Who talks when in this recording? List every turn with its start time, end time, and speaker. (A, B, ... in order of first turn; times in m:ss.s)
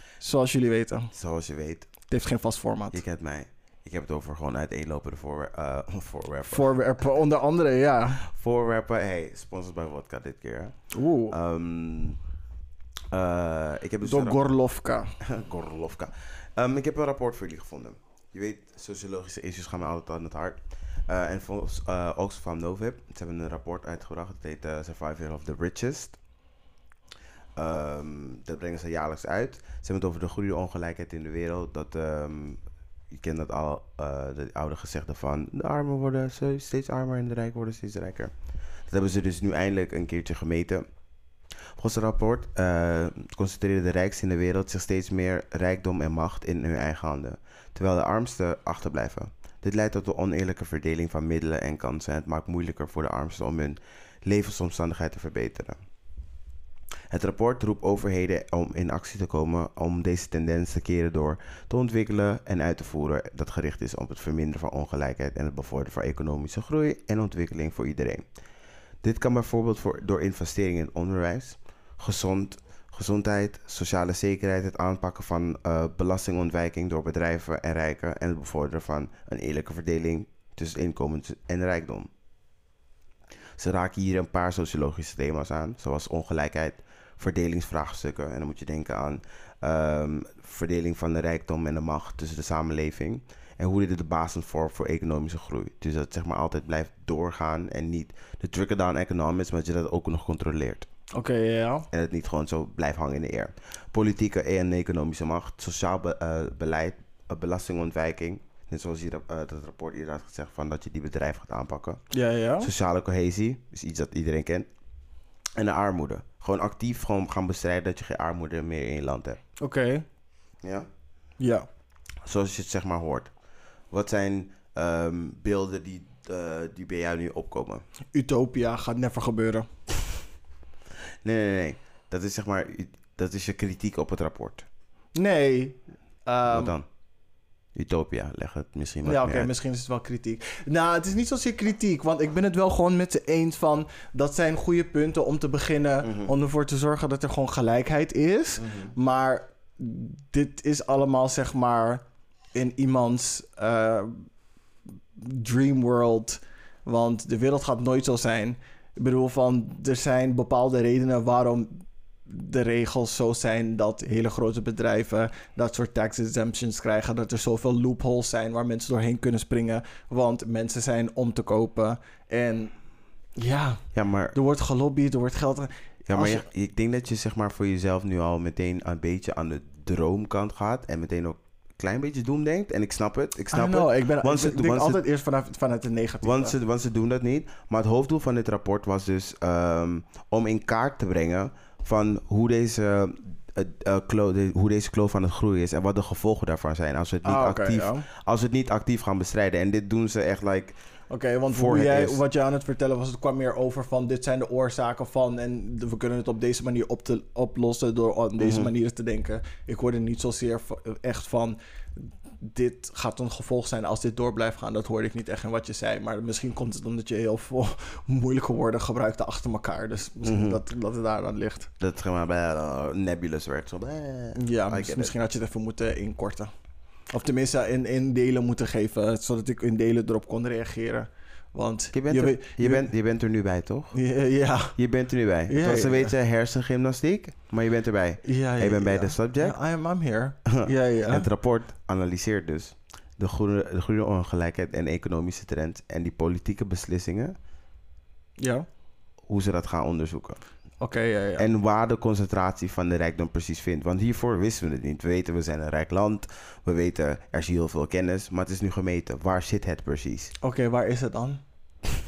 0:00.2-0:01.1 A
0:01.1-0:01.9 B
0:02.1-0:03.0 A
0:02.9-0:06.8 B
0:06.5-0:08.2 A
0:08.2-0:10.8 B
0:10.9-0:11.4 A
0:11.3-0:12.2 B
0:13.1-0:14.4 B
0:14.0-0:15.1 A
0:15.2-0:26.2 B
0:27.6-0:38.3 B
0:38.9-0:40.8 B
0:41.8-0:55.8 B
0:57.1-1:08.2 B
1:09.0-1:22.1 B
1:23.6-1:40.9 B
1:41.1-1:41.9 A
1:41.9-1:52.0 B
1:52.1-1:52.7 A
1:52.6-1:54.7 B
1:55.6-1:59.4 B
1:59.6-2:00.0 A
2:00.6-2:00.9 B
2:01.4-2:01.7 A
2:02.2-2:03.3 B
2:03.9-2:07.8 B
2:08.2-2:09.7 A
2:11.2-2:14.7 B
2:15.2-2:16.8 A
2:16.5-2:16.9 B
2:17.8-2:19.5 B
2:19.0-2:32.0 A
2:26.0-2:26.3 B
2:28.6-2:29.0 B
2:32.6-2:34.2 A
2:35.2-2:52.7 A
2:53.4-2:53.8 A
2:53.9-2:54.4 B
2:54.3-2:56.4 A
2:56.1-3:05.0 B
3:03.5-3:06.6 A
3:06.2-3:20.8 B
3:17.2-3:18.1 A
3:21.1-3:41.7 A
3:21.5-3:22.2 B
3:28.4-3:28.7 B
3:40.2-3:40.6 B
3:41.8-3:45.2 B
3:44.4-3:46.5 A
3:47.1-3:52.9 A
3:51.9-3:53.9 B
3:53.9-3:54.8 A
3:54.8-3:59.6 B
3:55.5-3:56.1 A
3:58.2-4:01.3 A
4:00.5-4:07.4 B
4:08.4-4:08.7 A
4:09.3-4:10.4 B
4:10.8-4:11.5 A
4:11.4-4:20.3 B
4:20.4-4:21.4 A